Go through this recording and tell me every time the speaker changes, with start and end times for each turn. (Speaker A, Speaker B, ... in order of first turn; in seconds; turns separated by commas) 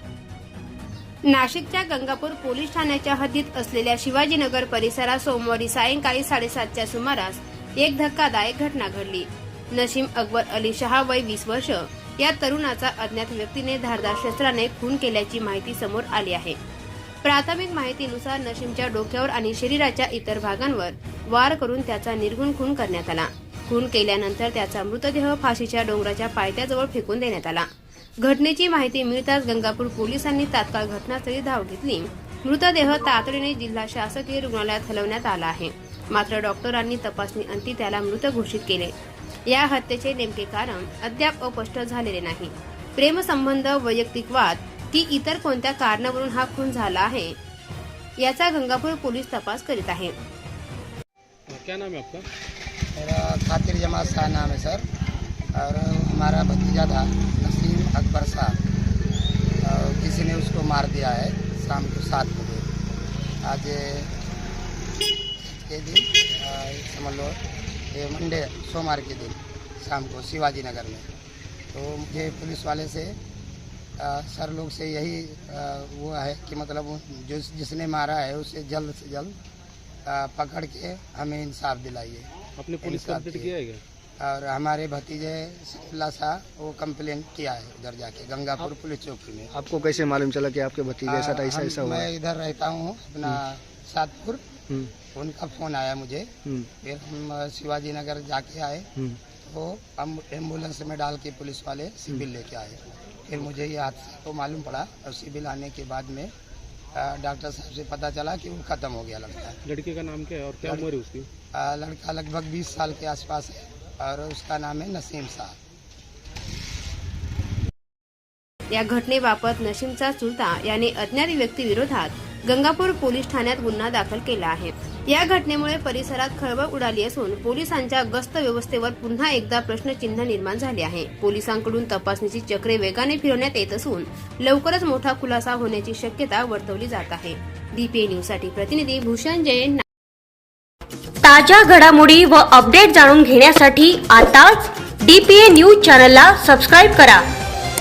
Speaker A: 1.3-16.6, Speaker A: 17.2-27.7, Speaker A: 28.2-38.9, Speaker A: 39.5-47.4, Speaker A: 48.2-50.1, Speaker B: 51.5-52.3, Speaker C: 53.0-54.8, Speaker C: 55.5-58.6, Speaker C: 59.6-62.7, Speaker C: 63.4-64.1, Speaker C: 65.4-71.1, Speaker C: 71.7-73.2, Speaker C: 74.0-79.4, Speaker C: 80.1-82.3, Speaker B: 82.6-83.8, Speaker C: 82.8-83.5, Speaker C: 84.2-89.5, Speaker D: 89.5-92.1, Speaker C: 91.1-94.5, Speaker C: 95.1-98.9, Speaker C: 99.5-106.3, Speaker C: 107.0-109.6, Speaker B: 109.7-111.3, Speaker C: 110.6-110.9, Speaker C: 111.5-115.6, Speaker A: 118.7-139.8, Speaker E: 141.2-147.3